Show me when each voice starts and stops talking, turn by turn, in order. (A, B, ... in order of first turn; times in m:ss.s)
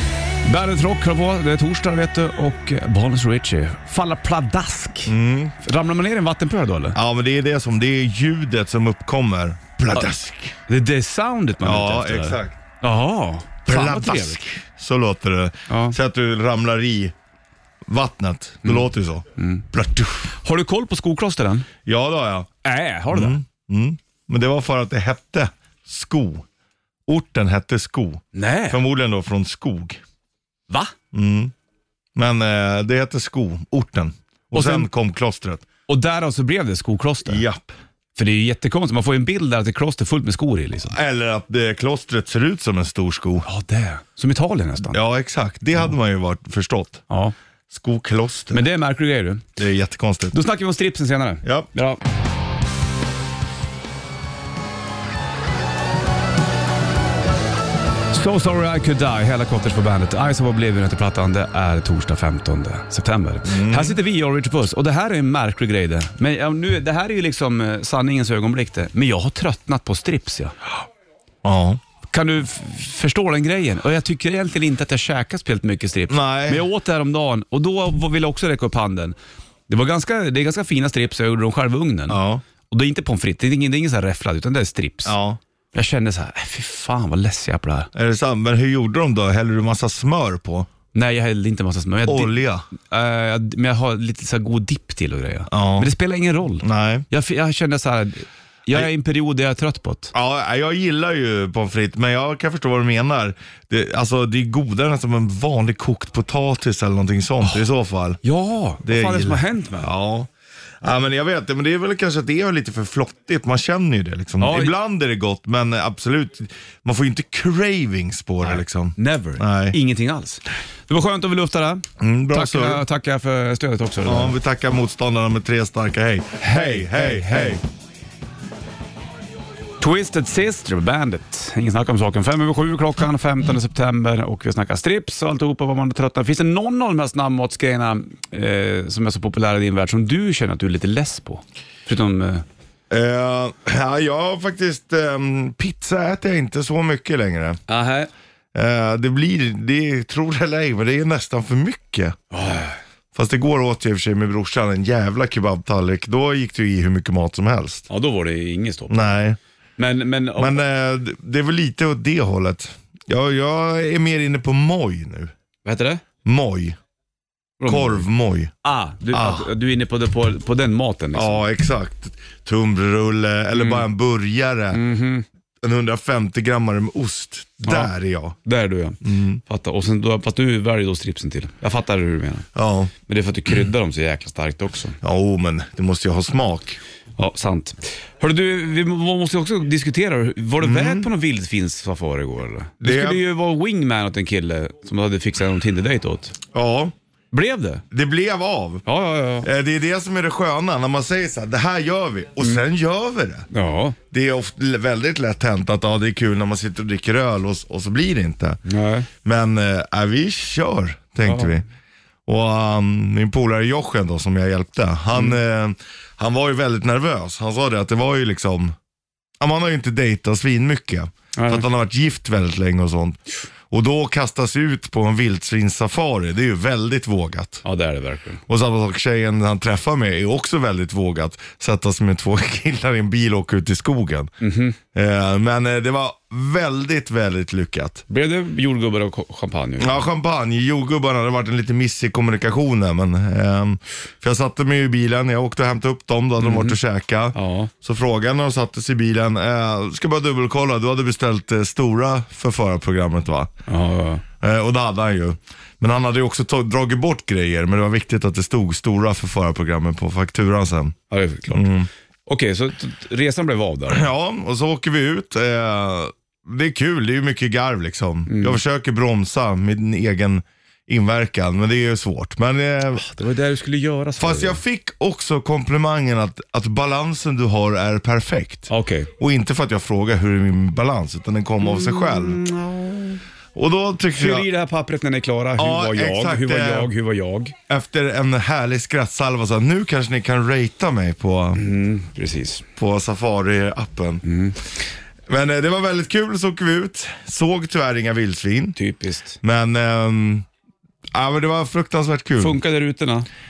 0:00.4-0:07.0 A
0:05.1-0:05.5 B
0:07.0-0:10.6 B
0:10.7-0:14.4 A
0:11.6-0:12.6 B
0:13.7-0:17.1 B
0:15.7-0:16.0 A
0:17.9-0:20.3 B
0:18.6-0:19.7 A
0:20.3-0:21.7 A
0:21.8-0:22.5 B
0:22.6-0:23.4 A
0:23.1-0:26.4 B
0:27.1-0:30.0 B
0:28.3-0:28.8 A
0:30.7-0:30.9 A
0:31.1-0:31.5 B
0:32.2-0:35.7 B
0:34.5-0:34.9 A
0:35.9-0:37.4 A
0:37.3-0:37.8 B
0:38.2-0:41.0 A
0:40.9-0:43.5 B
0:43.5-0:45.0 A
0:44.9-0:47.0 B
0:47.1-0:47.4 A
0:47.7-0:48.6 B
0:48.5-0:49.5 A
0:49.6-0:50.4 B
0:50.3-0:52.0 A
0:58.1-1:10.6 A
1:03.5-1:04.0 B
1:11.4-1:11.8 B
1:12.1-1:19.2 A
1:16.1-1:16.7 B
1:19.7-1:25.2 A
1:22.1-1:22.4 B
1:25.0-1:25.4 B
1:25.7-1:27.9 A
1:27.9-1:30.7 B
1:31.0-1:40.1 A
1:32.1-1:32.7 B
1:35.5-1:35.9 B
1:36.6-1:37.1 B
1:40.1-1:48.2 B
1:48.2-1:49.9 A
1:48.8-1:50.3 B
1:50.8-1:59.8 B
1:54.4-1:54.8 A
1:58.4-2:04.4 A
2:02.0-2:02.8 B
2:04.0-2:07.6 B
2:06.4-2:07.6 A
2:09.8-2:22.4 A
2:22.9-2:27.6 B
2:27.7-2:28.1 A
2:28.5-2:32.2 B
2:32.3-2:32.8 A
2:33.2-2:37.9 B
2:37.9-2:39.2 A
2:38.9-2:39.4 B
2:39.8-2:40.6 A
2:40.4-2:45.3 B
2:45.6-2:46.0 A
2:46.2-2:46.8 B
2:47.6-2:48.0 A
2:47.6-2:48.5 B
2:48.6-2:51.4 A
2:49.1-2:49.5 B
2:51.1-2:54.8 B
2:53.5-2:53.8 A
2:54.7-2:55.3 A
2:55.6-2:58.4 B
2:57.6-2:57.9 A
2:58.4-3:02.5 A
2:59.0-2:59.4 B
3:02.6-3:02.9 B
3:03.1-3:05.0 A
3:05.0-3:06.8 B
3:07.2-3:16.4 A
3:10.6-3:11.1 B
3:12.8-3:13.2 B
3:16.5-3:16.9 B
3:17.3-3:17.8 A
3:17.9-3:18.8 B
3:18.8-3:19.5 A
3:19.4-3:23.5 B
3:23.5-3:24.0 A
3:24.1-3:28.6 B
3:28.6-3:29.1 A
3:29.2-3:31.6 B
3:31.3-3:31.6 A
3:32.3-3:38.8 B
3:39.4-3:47.6 B
3:41.4-3:41.6 A
3:47.6-3:48.4 A
3:48.5-3:54.3 B
3:54.4-3:54.8 A
3:54.9-3:58.0 B
3:58.1-4:00.0 A
3:59.8-4:13.5 B
4:06.4-4:06.8 A
4:07.3-4:07.7 A
4:13.7-4:14.2 A
4:14.4-4:21.0 B
4:21.1-4:21.7 A
4:21.5-4:21.9 B
4:22.3-4:24.1 A
4:23.9-4:33.0 B
4:28.3-4:28.6 A
4:33.0-4:34.6 A
4:34.2-4:42.4 B
4:38.7-4:39.1 A
4:41.6-4:43.2 A
4:43.6-4:44.5 B
4:44.2-4:47.6 A
4:45.6-4:46.9 B
4:47.7-4:51.6 B
4:51.6-4:52.7 A
4:52.8-4:54.2 B
4:54.2-4:54.6 A
4:55.3-4:58.8 B
4:58.8-4:59.4 A
4:59.4-5:00.5 B
5:01.1-5:02.6 B
5:02.4-5:03.3 A